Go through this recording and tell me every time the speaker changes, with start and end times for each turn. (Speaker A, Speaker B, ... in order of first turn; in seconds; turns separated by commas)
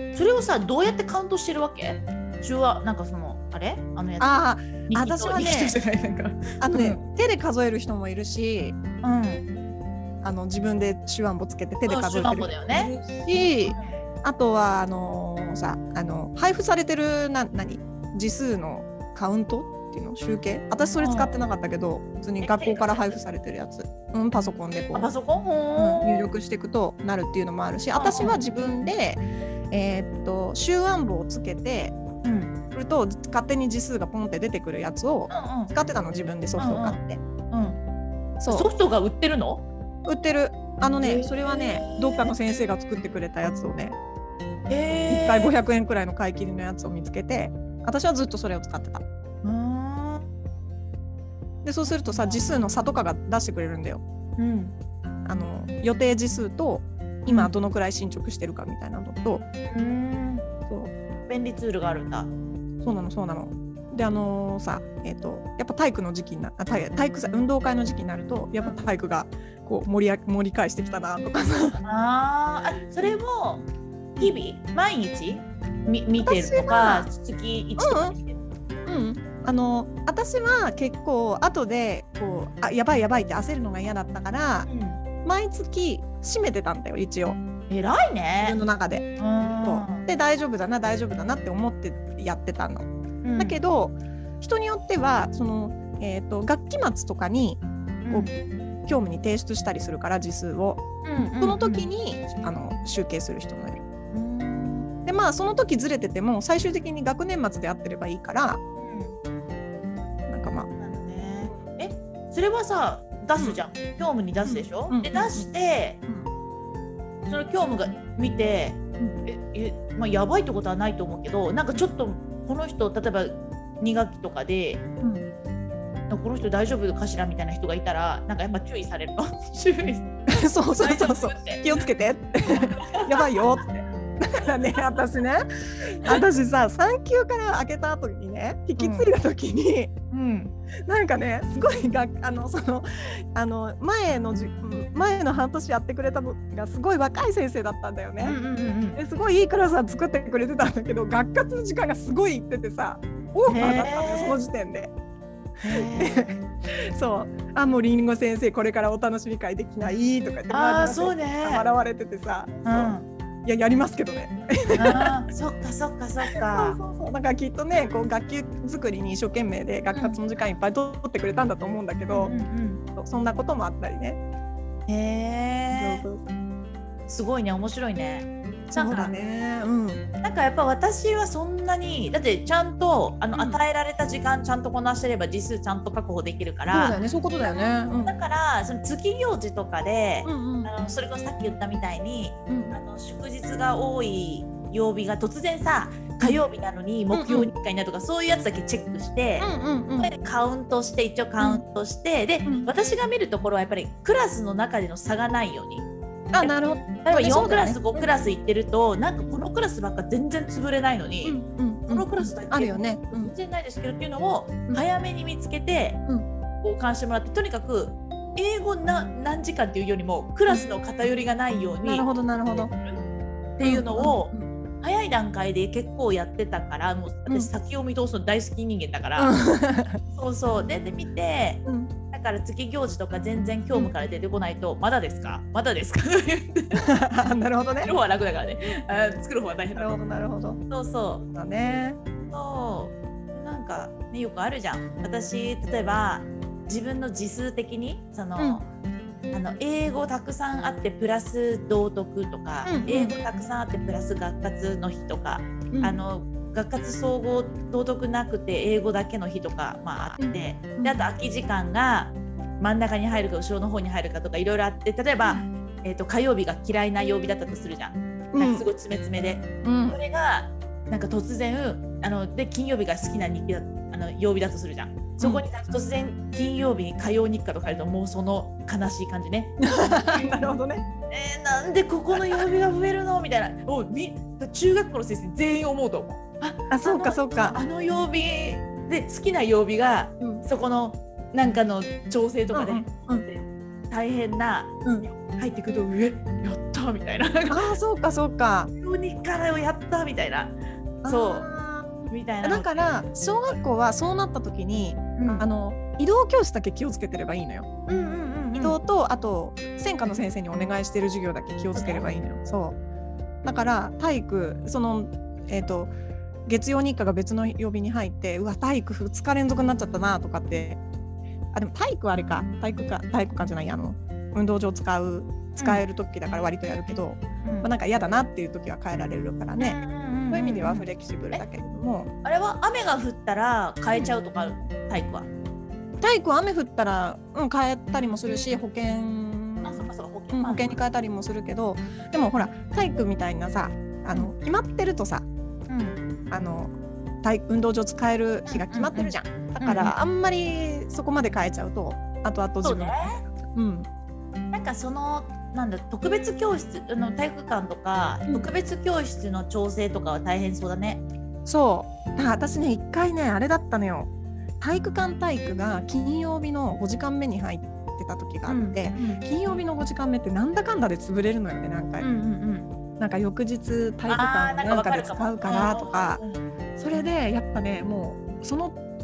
Speaker A: 0.1-4.3, Speaker B: 4.2-5.8, Speaker A: 4.9-7.0, Speaker B: 6.6-8.8, Speaker A: 9.0-9.5, Speaker B: 10.2-25.1, Speaker A: 11.9-12.9, Speaker A: 13.6-14.0, Speaker A: 21.0-21.4, Speaker A: 22.4-23.2, Speaker A: 24.9-26.2, Speaker B: 25.8-32.0, Speaker A: 27.9-28.4, Speaker A: 32.2-32.5, Speaker B: 32.7-37.2, Speaker A: 35.3-35.7, Speaker A: 36.6-37.0, Speaker A: 37.5-37.8, Speaker B: 38.4-38.7, Speaker A: 38.5-39.6, Speaker B: 40.0-44.0, Speaker A: 41.0-42.3, Speaker A: 44.7-45.5, Speaker B: 45.1-49.0, Speaker A: 49.4-50.3, Speaker B: 51.6-54.0, Speaker A: 51.9-52.4, Speaker A: 54.4-54.8, Speaker B: 55.2-59.4, Speaker A: 57.3-57.5, Speaker A: 59.7-60.5, Speaker A: 61.3-62.3, Speaker B: 62.8-71.8, Speaker A: 71.8-73.6, Speaker A: 74.2-78.4, Speaker B: 76.2-77.1, Speaker B: 77.8-78.2, Speaker B: 78.9-84.7, Speaker A: 84.6-85.0, Speaker B: 85.2-87.4, Speaker A: 87.7-88.6, Speaker B: 88.4-89.1, Speaker A: 89.2-90.0, Speaker B: 89.6-98.3, Speaker A: 93.2-93.6, Speaker A: 98.0-98.3, Speaker B: 98.9-103.8, Speaker A: 101.0-101.9, Speaker A: 104.1-104.9, Speaker B: 105.0-108.6, Speaker A: 108.8-109.2, Speaker B: 110.3-110.7, Speaker A: 110.8-116.0, Speaker B: 114.5-115.5, Speaker A: 117.3-124.8, Speaker B: 125.0-125.3, Speaker A: 126.1-130.1, Speaker B: 130.3-139.9, Speaker A: 130.8-131.9, Speaker A: 132.5-133.5, Speaker A: 138.8-139.1, Speaker A: 140.1-140.5, Speaker B: 140.9-148.4, Speaker A: 148.2-149.0, Speaker B: 148.9-154.9, Speaker A: 153.5-154.4, Speaker A: 155.6-156.3, Speaker B: 155.7-156.4, Speaker B: 156.9-165.1, Speaker A: 160.5-161.7, Speaker A: 162.6-163.1, Speaker A: 164.8-166.8, Speaker B: 166.3-172.3, Speaker A: 169.9-170.2, Speaker A: 172.1-172.8, Speaker B: 173.0-174.2, Speaker A: 174.9-176.0, Speaker B: 175.7-176.2, Speaker A: 177.1-179.1, Speaker B: 178.7-180.0, Speaker A: 180.2-205.9, Speaker B: 183.3-183.6, Speaker B: 186.7-188.1, Speaker B: 190.2-190.7, Speaker B: 192.5-192.8, Speaker B: 197.1-197.5, Speaker B: 199.4-200.1, Speaker B: 206.3-208.1, Speaker A: 206.4-216.0, Speaker B: 211.2-213.3, Speaker A: 216.6-223.0, Speaker B: 221.8-222.7, Speaker A: 223.6-229.3, Speaker B: 223.6-224.5, Speaker B: 229.2-230.0, Speaker A: 230.1-236.9, Speaker B: 231.7-231.9, Speaker B: 236.8-237.9, Speaker A: 237.8-240.0, Speaker B: 239.8-240.6, Speaker A: 240.7-248.7, Speaker B: 241.2-242.0, Speaker B: 248.4-248.6, Speaker A: 249.3-280.3, Speaker B: 252.6-253.1, Speaker B: 255.7-256.0, Speaker B: 260.2-261.0, Speaker B: 268.3-268.6, Speaker B: 269.6-270.0, Speaker B: 275.2-275.4, Speaker B: 279.6-280.9, Speaker A: 281.1-297.7, Speaker B: 282.1-282.5, Speaker B: 286.7-287.6, Speaker B: 290.2-290.4, Speaker B: 292.5-293.2, Speaker B: 294.8-295.1, Speaker B: 297.5-298.7, Speaker A: 298.8-301.5, Speaker B: 301.0-307.7, Speaker A: 302.1-302.8, Speaker A: 305.2-305.5, Speaker A: 307.9-308.8, Speaker B: 308.6-312.8, Speaker A: 311.8-312.1, Speaker B: 313.4-315.9, Speaker B: 316.5-320.8, Speaker B: 321.5-332.1, Speaker A: 325.6-325.8, Speaker A: 327.4-327.7, Speaker A: 329.6-331.4, Speaker A: 332.2-335.3, Speaker B: 336.0-345.2, Speaker A: 339.6-340.8, Speaker A: 345.7-346.0, Speaker B: 346.3-353.9, Speaker A: 348.5-349.9, Speaker A: 352.6-353.2, Speaker A: 354.5-361.0, Speaker B: 361.5-364.1, Speaker B: 364.6-372.1, Speaker A: 368.5-369.2, Speaker A: 372.0-372.7, Speaker B: 373.0-376.2, Speaker A: 374.1-376.4, Speaker B: 376.8-378.8